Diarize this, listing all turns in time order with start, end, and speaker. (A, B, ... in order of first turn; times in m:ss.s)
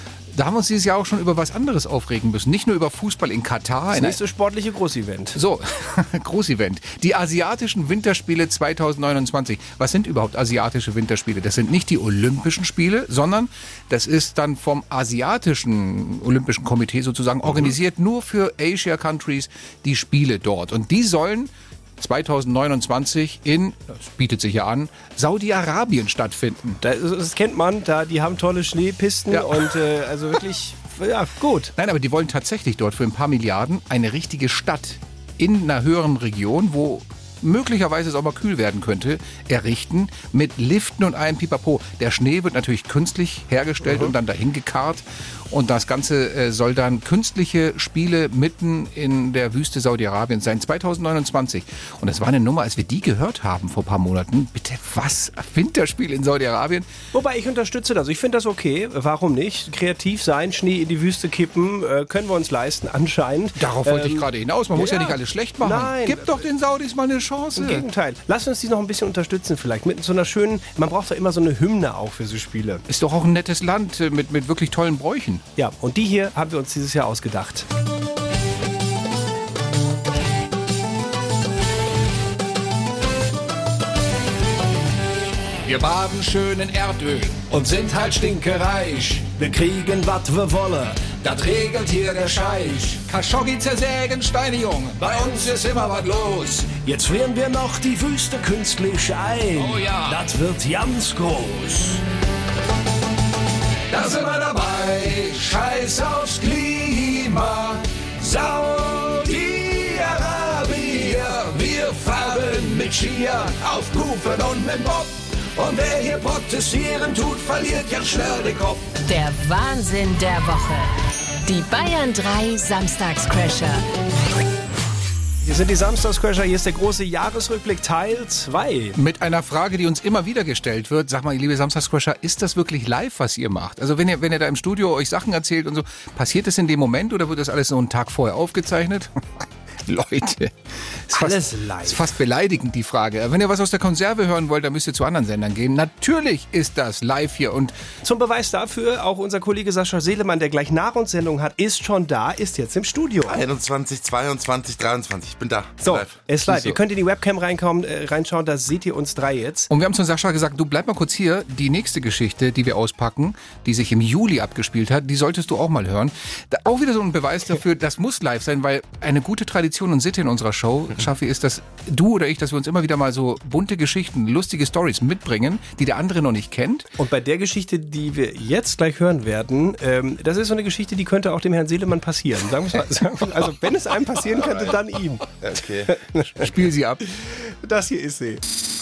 0:00.3-0:04.2 A
0:03.9-0:05.4 B
0:05.4-0:26.8 A
0:26.8-0:31.7 B
0:29.3-0:29.7 A
0:31.8-0:56.9 A
0:57.1-1:06.5 B
1:03.6-1:07.8 A
1:07.6-1:12.8 B
1:12.9-1:15.4 A
1:15.6-1:17.7 B
1:25.6-1:29.3 A
1:29.4-1:32.9 C
1:31.3-1:36.7 A
1:36.8-1:42.0 C
1:39.6-1:40.2 A
1:43.9-1:58.8 A
1:59.1-2:00.9 D
2:01.4-2:03.8 D
2:05.4-2:09.0 B
2:09.0-2:19.1 A
2:19.9-2:20.5 A
2:21.1-2:27.8 A
2:21.1-2:22.1 B
2:28.0-2:33.4 B
2:33.2-2:36.2 E
2:35.8-2:39.7 B
2:36.4-2:36.8 A
2:39.7-2:56.9 A
2:57.0-3:06.5 B
3:05.4-3:05.9 E
3:06.4-3:07.0 A
3:07.6-3:08.4 B